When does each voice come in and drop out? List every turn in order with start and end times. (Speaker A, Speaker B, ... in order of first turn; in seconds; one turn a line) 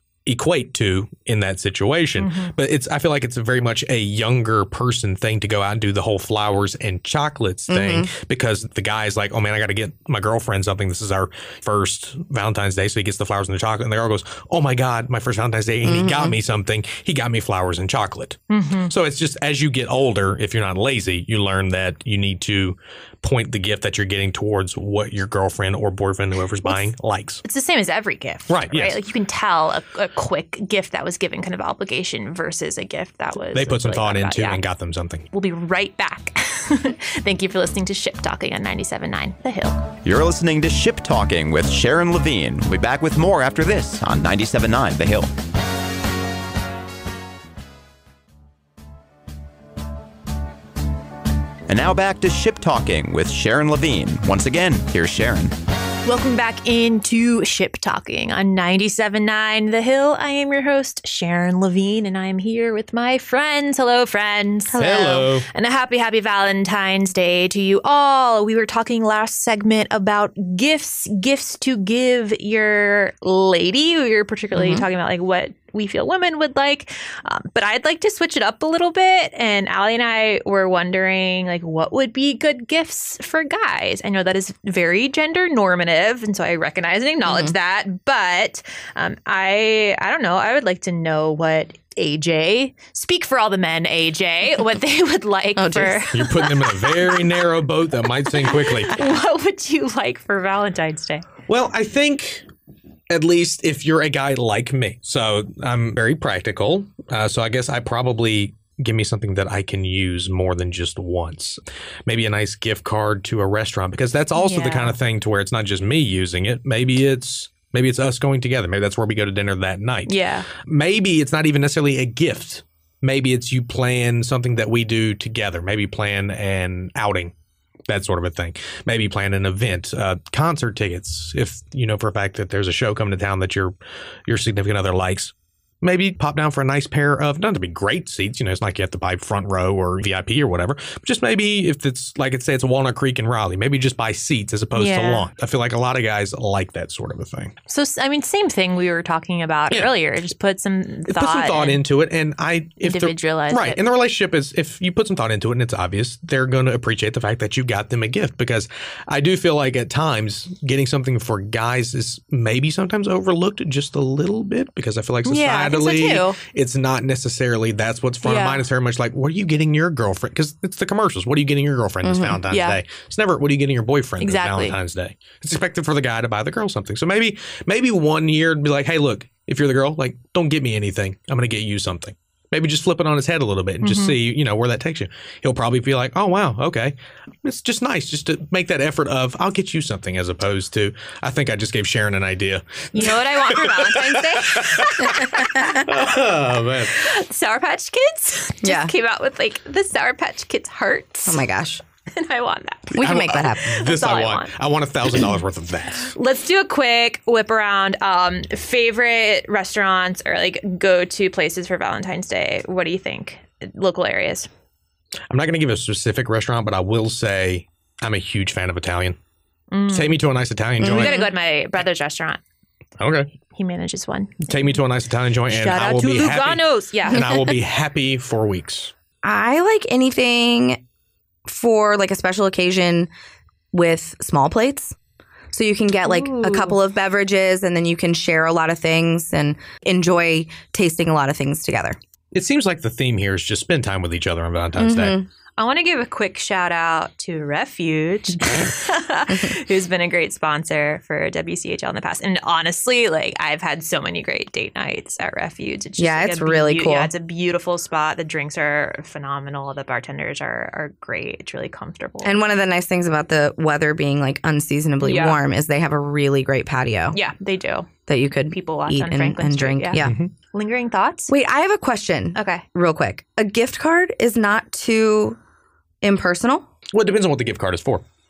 Speaker A: 0.2-27.4
Speaker B: 2.2-2.5
Speaker C: 7.7-8.1
Speaker C: 15.8-16.4
Speaker B: 18.5-18.9
Speaker B: 27.4-34.6
Speaker A: 28.5-29.0
Speaker A: 33.5-35.3
Speaker B: 35.3-39.9
Speaker D: 40.0-45.3
Speaker D: 51.7-55.5
Speaker B: 56.0-97.2
Speaker C: 64.7-65.1
Speaker A: 64.8-65.5
Speaker C: 74.5-74.9
Speaker C: 87.2-87.5
Speaker C: 95.5-96.1
Speaker A: 96.1-99.0
Speaker B: 98.5-101.2
Speaker A: 101.5-102.5
Speaker A: 103.1-127.3
Speaker B: 114.3-115.0
Speaker B: 120.0-120.5
Speaker A: 127.9-133.7
Speaker A: 134.3-147.5
Speaker B: 144.7-145.3
Speaker B: 147.7-151.8
Speaker A: 151.1-196.9
Speaker B: 152.8-153.8
Speaker B: 165.2-166.4
Speaker B: 168.2-168.6
Speaker C: 172.0-172.4
Speaker B: 172.5-172.8
Speaker B: 174.2-174.8
Speaker B: 183.8-184.2
Speaker B: 192.9-195.6
Speaker B: 196.9-201.4
Speaker C: 198.6-198.9
Speaker C: 201.2-201.8
Speaker B: 202.1-204.5
Speaker C: 202.9-203.7
Speaker A: 202.9-206.1
Speaker B: 206.1-214.5
Speaker A: 215.3-219.2
Speaker B: 219.7-220.2
Speaker A: 219.9-221.2
Speaker C: 220.8-221.3
Speaker B: 220.8-222.4
Speaker A: 223.0-223.3
Speaker B: 223.5-224.5
Speaker A: 224.4-228.9
Speaker B: 225.5-227.4
Speaker C: 229.2-230.8
Speaker C: 231.5-233.1
Speaker C: 233.7-234.9
Speaker C: 235.5-242.0
Speaker B: 236.1-236.8
Speaker A: 242.3-245.2
Speaker C: 244.8-245.3
Speaker B: 245.6-262.4
Speaker C: 256.0-257.1
Speaker C: 262.2-267.2
Speaker B: 265.0-265.4
Speaker B: 267.1-267.9
Speaker C: 268.1-270.1
Speaker B: 268.5-271.3
Speaker A: 269.9-270.3
Speaker C: 271.3-275.4
Speaker B: 272.3-272.6
Speaker C: 276.0-276.6
Speaker A: 276.9-278.0